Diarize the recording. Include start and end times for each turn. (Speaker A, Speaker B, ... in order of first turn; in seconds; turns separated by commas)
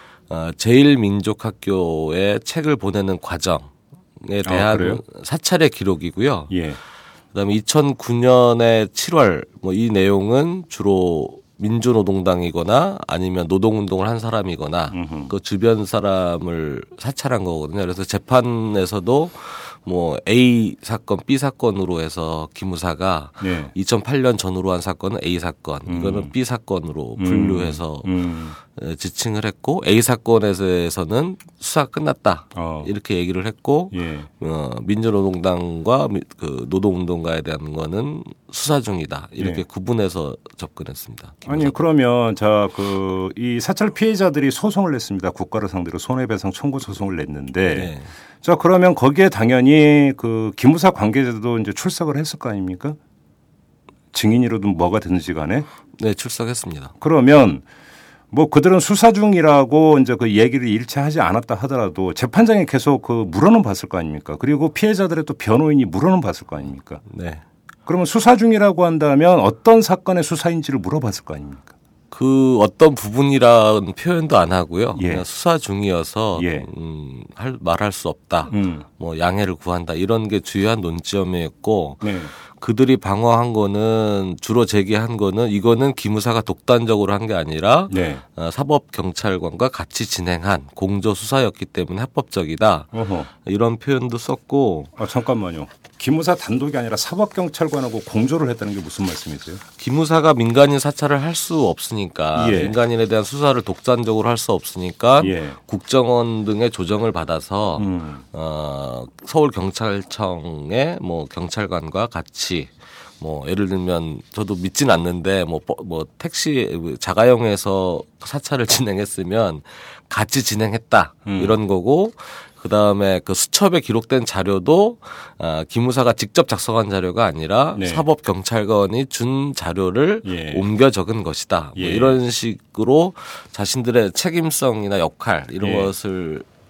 Speaker A: 0.3-6.5, Speaker B: 4.5-5.0, Speaker B: 6.5-6.8, Speaker A: 7.3-28.1, Speaker B: 14.9-15.3, Speaker B: 23.4-23.7, Speaker B: 25.9-26.3, Speaker B: 27.2-28.6, Speaker A: 28.7-41.8, Speaker B: 32.5-32.9, Speaker B: 33.9-34.3, Speaker B: 39.4-39.6, Speaker B: 41.5-53.0, Speaker A: 47.8-48.1, Speaker B: 54.1-55.7, Speaker A: 56.0-56.9, Speaker B: 57.0-57.6, Speaker B: 58.3-67.0, Speaker A: 67.1-67.4, Speaker B: 67.9-71.7, Speaker A: 72.1-92.9, Speaker B: 75.0-75.3, Speaker B: 76.3-76.7, Speaker B: 78.5-78.9, Speaker B: 82.0-82.3, Speaker B: 87.9-88.2, Speaker B: 92.9-93.3, Speaker A: 93.4-94.9, Speaker B: 95.0-99.6, Speaker A: 99.8-136.5, Speaker B: 102.3-102.8, Speaker B: 105.2-105.6, Speaker B: 107.8-108.2, Speaker B: 121.3-121.6, Speaker B: 127.8-128.1, Speaker B: 130.2-130.7, Speaker B: 131.8-132.2, Speaker B: 135.6-135.9